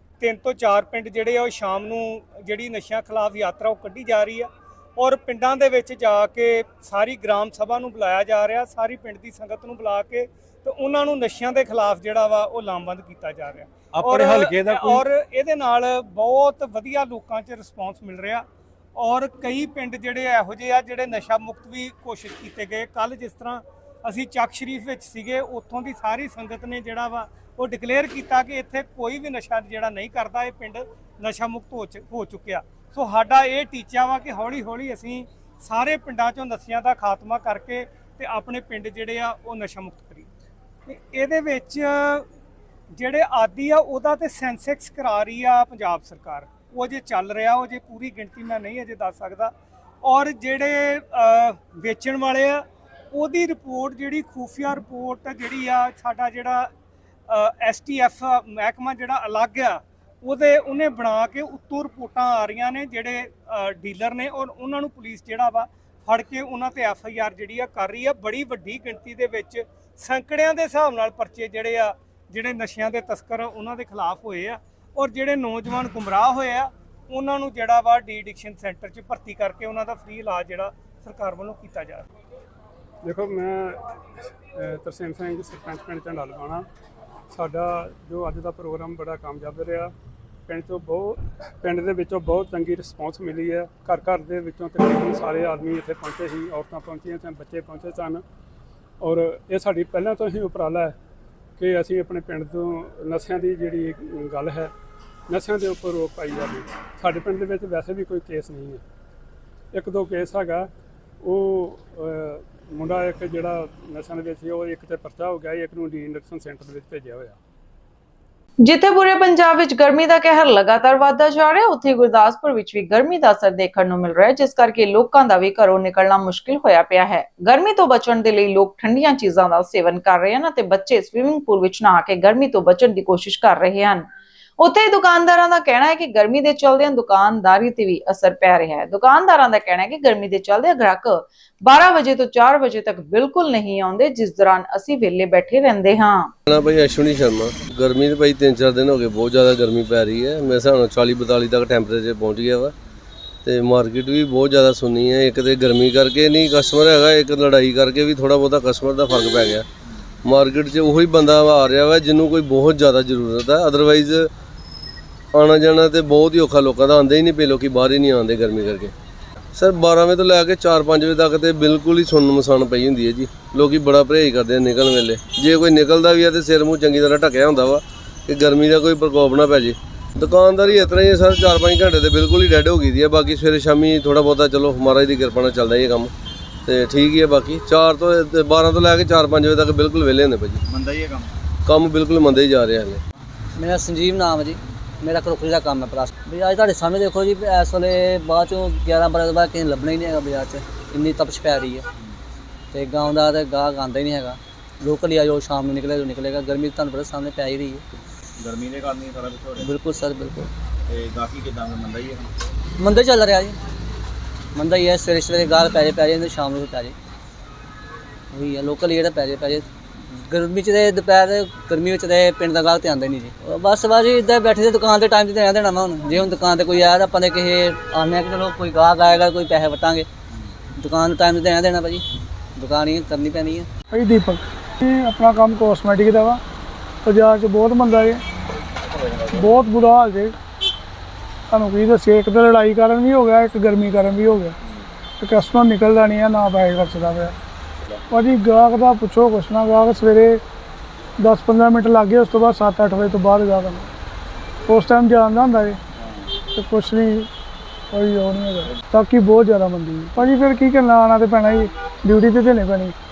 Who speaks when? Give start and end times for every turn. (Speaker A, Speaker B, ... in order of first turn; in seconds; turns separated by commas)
Speaker A: 0.2-18.4, Speaker A: 19.0-40.2, Speaker A: 40.9-42.2, Speaker A: 43.0-49.5, Speaker A: 50.0-52.6, Speaker A: 53.1-56.7, Speaker A: 57.3-82.1, Speaker B: 83.0-83.8, Speaker B: 84.5-86.7, Speaker B: 87.3-89.9, Speaker B: 90.5-98.2, Speaker B: 99.0-100.9, Speaker B: 101.6-104.7, Speaker B: 105.3-108.8, Speaker B: 109.7-110.7, Speaker B: 111.2-117.3, Speaker C: 118.6-134.1, Speaker C: 134.6-146.3, Speaker D: 146.5-152.7, Speaker D: 153.4-159.6, Speaker D: 160.2-164.3, Speaker D: 165.3-168.9, Speaker D: 169.5-186.1, Speaker D: 186.7-190.6, Speaker E: 190.7-191.3, Speaker D: 191.7-193.0, Speaker F: 193.6-201.8, Speaker F: 202.7-207.8, Speaker E: 208.4-209.7, Speaker F: 209.6-210.5, Speaker E: 210.9-212.3, Speaker F: 212.8-213.6, Speaker F: 214.5-216.9, Speaker F: 218.3-219.7, Speaker F: 220.2-230.1, Speaker F: 230.8-232.0, Speaker F: 232.6-233.7, Speaker G: 233.9-236.4, Speaker G: 237.0-238.2, Speaker G: 239.4-240.3, Speaker G: 241.5-244.5, Speaker G: 245.2-247.3, Speaker G: 248.1-250.4, Speaker G: 251.2-253.9, Speaker G: 254.7-255.8, Speaker G: 256.5-257.3, Speaker G: 257.9-262.9